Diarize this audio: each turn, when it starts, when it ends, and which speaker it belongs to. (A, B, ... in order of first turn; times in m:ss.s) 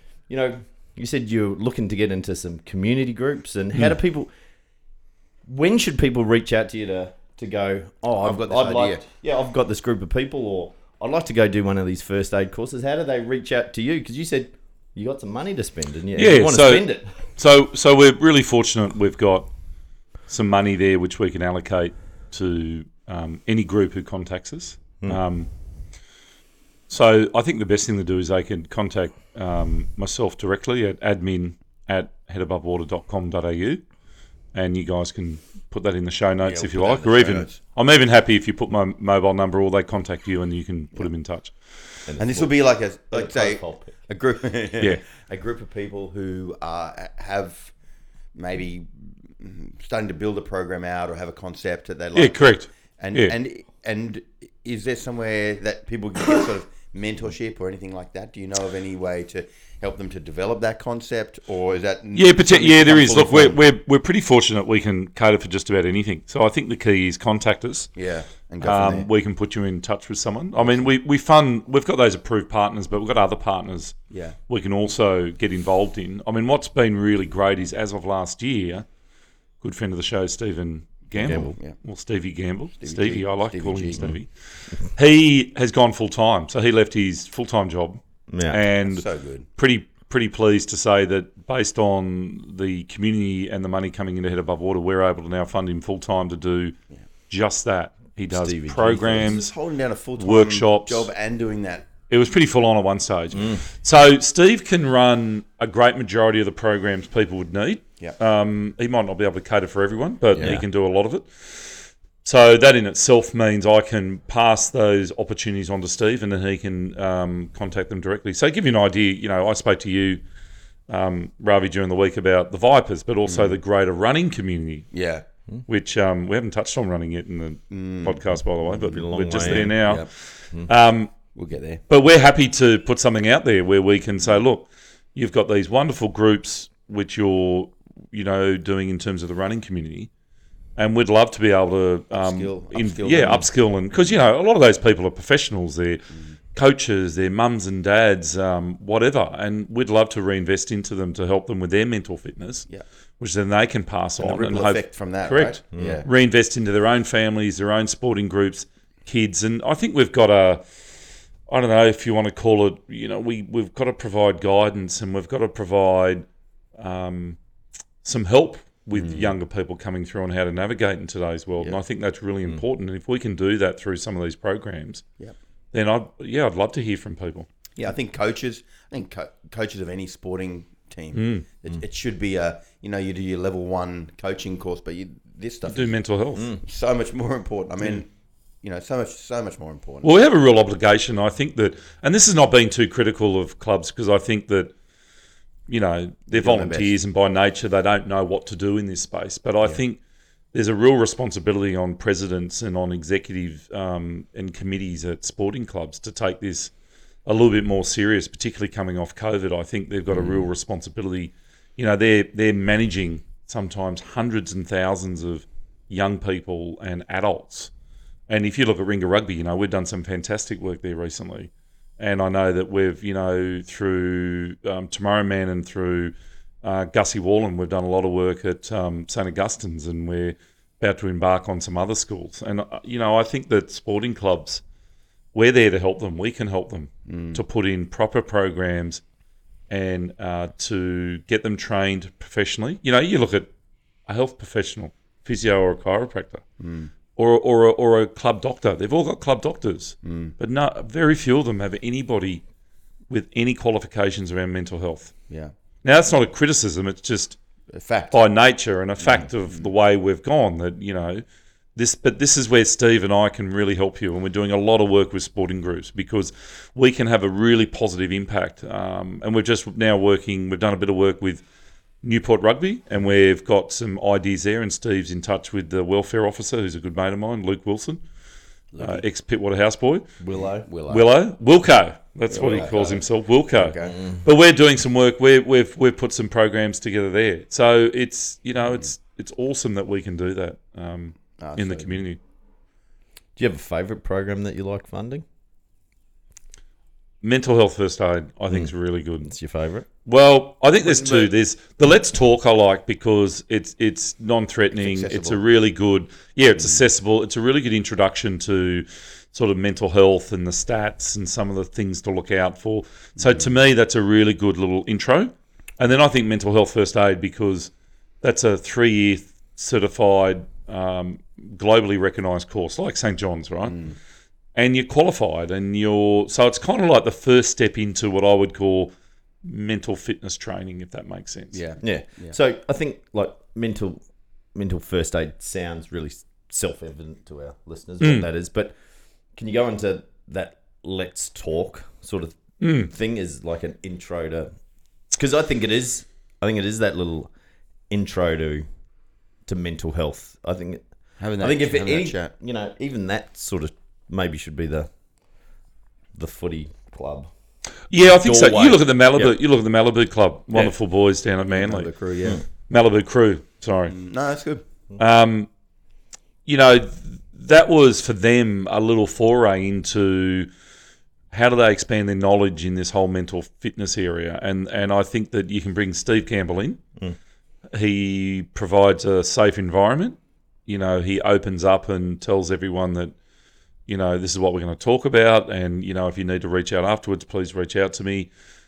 0:00.3-0:04.3 A
0:05.5-0:17.1 A
0:08.2-0:09.0 B
0:16.2-0:19.5 C
0:20.3-0:25.5 C
0:26.9-0:33.8 C
0:34.5-0:41.5 C
0:36.4-0:37.6 B
0:42.1-0:42.5 A
0:42.2-0:47.7 B
0:43.1-0:43.9 A
0:48.3-0:52.4 B
0:52.1-0:53.3 C
0:53.0-1:03.6 B
1:02.1-1:07.9 C
1:08.0-1:09.1 B
1:08.6-1:13.9 C
1:10.6-1:10.9 B
1:14.1-1:14.4 B
1:14.5-1:18.8 C
1:19.6-1:24.3 C
1:21.2-1:21.5 A
1:21.4-1:21.7 B
1:22.8-1:24.2 B
1:24.8-1:36.8 C
1:28.3-1:28.6 A
1:28.8-1:29.5 B
1:37.3-1:39.5 C
1:38.3-1:39.3 A
1:39.2-1:41.9 B
1:40.2-1:41.1 C
1:42.1-2:00.2 C
1:43.3-1:43.6 A
1:50.3-1:50.6 B
1:50.4-1:50.6 A
2:00.9-2:04.9 C
2:03.2-2:03.6 B
2:04.9-2:05.2 B
2:05.7-2:10.1 C
2:07.7-2:08.9 B
2:08.8-2:09.9 A
2:09.5-2:10.1 B
2:10.6-2:11.1 C
2:11.3-2:11.8 B
2:11.9-2:20.1 C
2:20.8-2:32.7 C
2:22.2-2:23.5 B
2:33.2-2:40.7 C
2:34.2-2:36.1 B
2:35.7-2:36.0 A
2:41.5-2:46.2 C
2:46.8-2:47.4 C
2:48.0-2:55.0 C
2:48.9-2:49.3 B
2:55.7-2:57.5 C
2:57.8-3:05.9 B
3:01.1-3:01.5 C
3:05.7-3:06.6 C
3:06.6-3:08.1 B
3:08.6-3:10.1 B
3:10.0-3:14.7 C
3:15.7-3:20.0 C
3:16.3-3:16.9 B
3:20.5-3:26.7 C
3:27.2-3:37.7 C
3:30.1-3:30.4 B
3:38.3-3:54.6 C
3:55.3-3:59.0 C
3:57.1-3:57.4 B
3:59.7-4:03.5 C
4:04.1-4:06.4 C
4:06.6-4:06.9 B
4:07.2-4:12.4 C
4:10.0-4:10.3 B
4:13.1-4:15.1 C
4:15.8-4:17.4 C
4:17.7-4:18.2 B
4:18.1-4:21.2 C
4:19.0-4:19.7 B
4:21.8-4:31.4 C
4:32.0-4:38.0 C
4:38.7-4:39.0 B
4:38.8-4:40.1 C
4:40.2-4:40.7 A
4:40.3-4:41.1 B
4:40.9-4:52.2 C
4:42.3-4:44.0 B
4:51.4-4:52.0 B
4:53.4-4:55.2 A
4:57.2-4:59.3 C
4:59.2-4:59.8 A
5:00.0-5:17.7 C
5:00.9-5:01.3 A
5:04.8-5:05.4 B
5:13.2-5:13.4 B
5:18.2-5:23.8 C
5:23.7-5:24.0 B
5:24.5-5:28.9 C
5:29.4-5:31.6 C
5:31.5-5:32.4 B
5:31.8-5:34.0 A
5:34.5-5:38.7 A
5:38.0-5:38.3 C
5:39.4-5:44.5 A
5:42.6-5:42.9 C
5:45.1-5:47.3 A
5:47.9-5:48.6 A
5:49.5-5:50.8 A
5:51.2-5:52.3 B
5:51.4-5:54.9 A
5:56.2-5:57.3 A
5:57.9-6:01.9 C
5:58.1-5:59.3 A
6:01.5-6:02.4 B
6:02.7-6:03.9 C
6:03.9-6:04.6 B
6:05.0-6:05.5 C
6:06.4-6:10.5 C
6:11.3-6:16.8 C
6:17.7-6:23.1 C
6:23.9-6:28.3 C